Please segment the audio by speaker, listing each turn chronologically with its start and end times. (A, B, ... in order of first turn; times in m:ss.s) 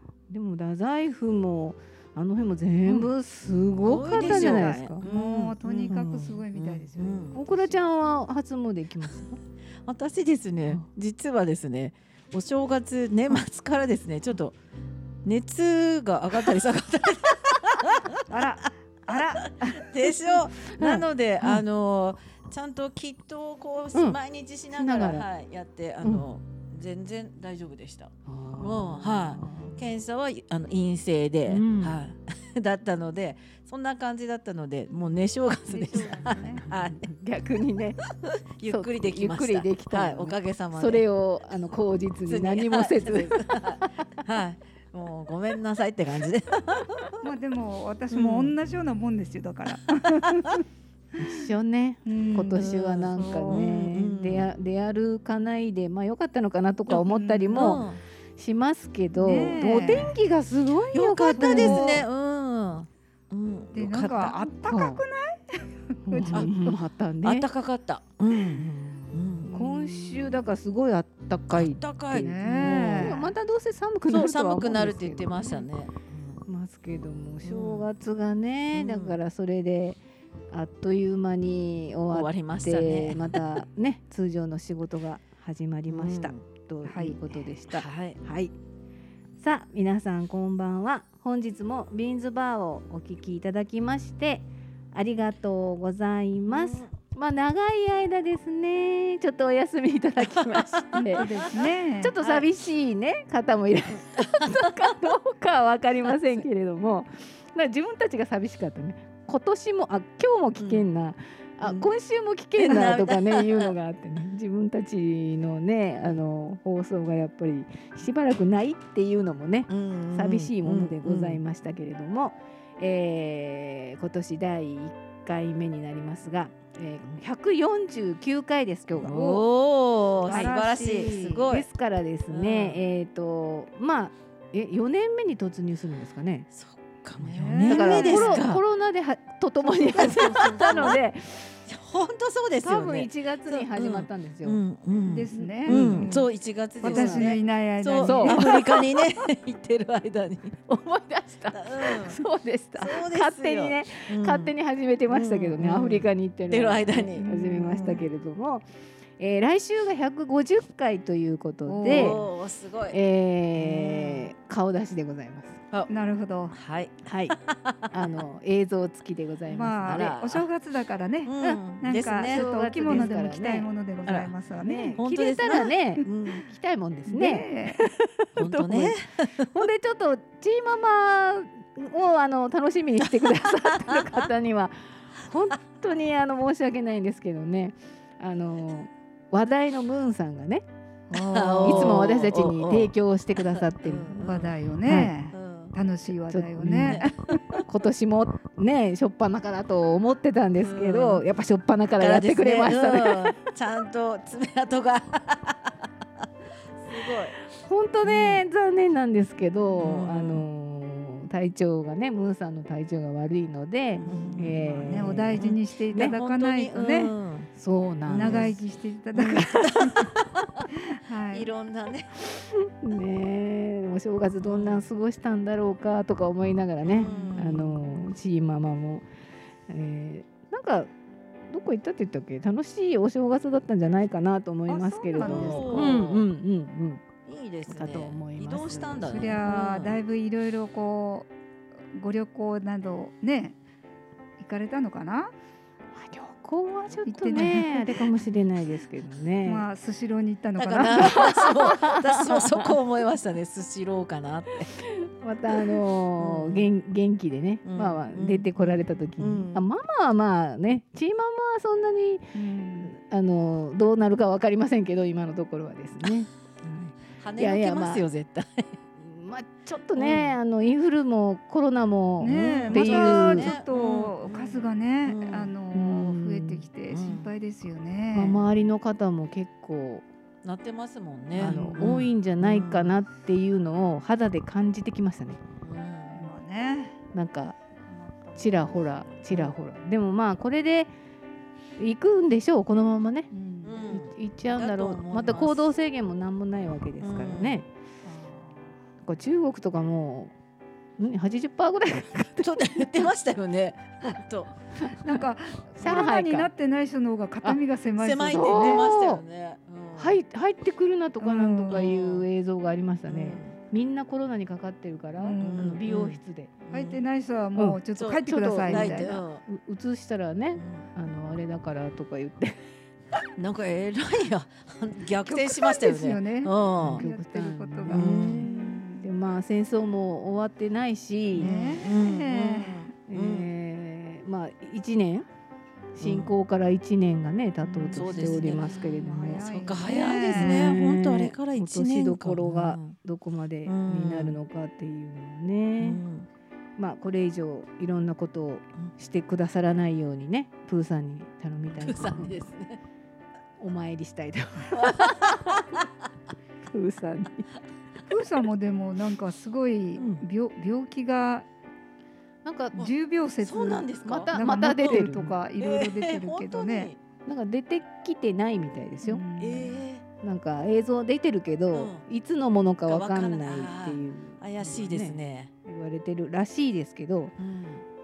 0:00.3-0:05.0 A
0:03.8-0:07.4 B
0:04.1-0:07.8 C
0:05.9-0:06.4 A
0:07.3-0:09.4 A
0:09.8-0:14.6 B
0:15.2-0:18.5 B
0:18.3-0:20.3 C
0:19.1-0:37.1 B
0:20.7-0:21.6 A
0:23.9-0:24.2 A
0:24.7-0:25.3 A
0:28.3-0:29.8 A
0:31.5-0:32.0 A
0:35.7-0:36.6 C
0:35.7-0:38.0 A
0:38.2-0:41.0 B
0:38.7-0:44.1 A
0:42.3-0:47.2 B
0:47.2-0:50.6 C
0:48.1-0:48.6 B
0:50.2-0:50.6 B
0:51.2-0:57.8 A
0:52.1-0:53.6 C
0:52.5-0:54.5 B
0:56.9-0:57.8 C
0:57.6-0:58.0 B
0:58.4-1:01.8 A
0:59.2-1:00.2 C
1:00.9-1:04.4 B
1:01.3-1:02.1 C
1:03.7-1:06.5 C
1:04.7-1:05.0 A
1:06.1-1:07.5 A
1:06.3-1:06.7 B
1:07.2-1:09.5 B
1:08.5-1:15.7 A
1:09.4-1:10.4 C
1:11.5-1:13.1 B
1:12.1-1:13.3 C
1:14.1-1:16.4 B
1:16.5-1:20.0 A
1:17.4-1:17.9 B
1:18.7-1:19.2 B
1:20.5-1:28.5 A
1:22.1-1:23.6 B
1:25.9-1:26.4 B
1:26.8-1:27.2 C
1:27.7-1:28.2 B
1:29.4-1:41.3 A
1:36.5-1:36.9 B
1:40.4-1:41.7 B
1:41.0-1:42.2 C
1:42.0-2:09.3 A
1:42.2-1:42.5 B
1:44.2-1:44.9 B
1:50.6-1:50.9 B
1:51.6-1:51.9 B
1:52.6-1:53.7 B
1:59.7-2:01.4 B
2:09.0-2:11.7 B
2:09.1-2:09.5 C
2:10.2-2:11.5 C
2:10.3-2:16.5 A
2:12.3-2:12.8 B
2:16.5-2:18.6 B
2:17.2-2:18.5 C
2:17.7-2:21.6 A
2:19.7-2:21.0 C
2:20.0-2:21.0 B
2:21.7-2:30.8 B
2:22.6-2:24.6 A
2:25.0-2:26.3 C
2:25.4-2:26.2 A
2:26.8-2:29.0 C
2:26.8-2:27.4 A
2:28.0-2:28.5 A
2:30.7-2:38.6 A
2:31.5-2:32.2 B
2:32.8-2:34.5 B
2:35.1-2:38.0 B
2:37.2-2:38.0 C
2:39.2-2:42.2 A
2:41.7-2:42.2 C
2:41.8-2:43.0 B
2:42.9-2:45.6 A
2:43.6-2:44.3 B
2:45.9-2:46.6 C
2:46.5-2:48.2 B
2:47.0-2:47.4 A
2:47.9-2:50.2 A
2:49.5-2:55.0 C
2:49.8-2:50.5 B
2:51.2-2:53.1 B
2:52.2-2:53.7 A
2:54.1-2:54.3 B
2:54.6-3:10.6 A
2:55.0-2:56.5 B
2:57.1-2:57.8 C
2:58.4-2:59.7 B
3:03.2-3:04.3 B
3:11.1-3:12.1 C
3:11.1-3:14.5 B
3:11.6-3:14.2 A
3:14.2-3:17.6 C
3:14.8-3:15.1 A
3:15.3-3:15.7 B
3:16.3-3:17.0 A
3:16.8-3:17.6 B
3:17.7-3:23.4 A
3:20.6-3:21.2 B
3:22.0-3:27.4 B
3:27.4-3:36.2 A
3:28.0-3:28.4 B
3:29.8-3:30.4 B
3:34.0-3:37.2 C
3:34.0-3:37.5 B
3:37.6-3:38.5 A
3:38.1-3:38.6 B
3:38.1-3:40.2 C
3:39.2-3:39.4 A
3:39.3-3:40.7 B
3:40.7-3:41.5 C
3:41.3-3:42.2 B
3:42.4-3:49.1 A
3:44.4-3:44.9 B
3:46.8-3:48.0 B
3:47.0-3:47.5 C
3:49.7-3:50.9 A
3:51.5-3:57.0 A
3:54.7-3:56.0 C
3:55.2-3:56.3 B
3:57.3-4:00.0 B
3:57.7-3:59.4 A
3:59.1-4:01.3 C
4:01.9-4:03.6 C
4:04.4-4:05.3 C
4:06.0-4:09.7 A
4:07.1-4:08.0 C
4:09.4-4:11.6 C
4:10.6-4:14.7 B
4:11.0-4:12.7 A
4:14.7-4:28.1 A
4:16.2-4:16.7 B
4:17.6-4:19.7 B
4:22.4-4:22.9 C
4:27.2-4:28.8 B
4:29.0-4:33.5 A
4:30.0-4:30.4 B
4:32.2-4:38.4 C
4:32.3-4:35.5 B
4:35.7-4:36.7 A
4:36.9-4:37.3 B
4:38.1-4:40.1 A
4:40.4-4:43.0 B
4:41.4-4:45.4 A
4:41.4-4:41.8 C
4:45.6-4:46.3 B
4:46.1-4:47.0 C
4:47.1-4:47.6 A
4:47.9-4:49.2 C
4:48.4-4:50.9 A
4:51.8-4:53.3 A
4:53.3-4:53.9 C
4:53.6-4:55.7 B
4:53.9-4:57.7 A
4:57.0-4:57.6 B
4:58.0-4:58.8 C
4:59.0-5:00.3 A
5:01.0-5:03.1 A
5:02.4-5:04.6 B
5:05.0-5:08.8 C
5:05.8-5:06.5 A
5:05.8-5:06.1 B
5:08.0-5:10.2 B
5:08.3-5:09.2 A
5:10.0-5:16.6 A
5:11.2-5:11.9 C
5:11.7-5:12.3 B
5:13.1-5:13.6 B
5:15.2-5:15.7 C
5:15.4-5:16.2 B
5:16.7-5:19.2 C
5:16.7-5:17.0 B
5:17.6-5:22.6 A
5:18.0-5:19.4 B
5:20.6-5:20.9 B
5:23.4-5:27.0 B
5:25.2-5:29.1 C
5:26.8-5:31.7 A
5:27.9-5:28.5 B
5:31.3-5:33.5 B
5:31.4-5:32.9 C
5:33.1-5:35.3 A
5:36.0-5:46.0 A
5:36.0-5:36.3 B
5:37.9-5:40.8 C
5:37.9-5:43.0 B
5:43.6-5:44.4 B
5:45.8-5:46.3 B
5:46.8-5:52.5 A
5:51.7-5:52.8 B
5:53.6-5:55.7 A
5:54.7-5:55.9 B
5:56.7-5:57.5 A
5:58.1-6:01.5 C
6:00.0-6:00.2 A
6:02.4-6:02.9 A
6:02.8-6:06.9 C
6:03.4-6:07.0 B
6:04.0-6:05.4 A
6:07.3-6:09.2 A
6:09.0-6:09.8 C
6:09.4-6:10.0 B
6:10.2-6:17.4 A
6:11.7-6:12.0 B
6:12.9-6:15.5 B
6:17.4-6:17.8 B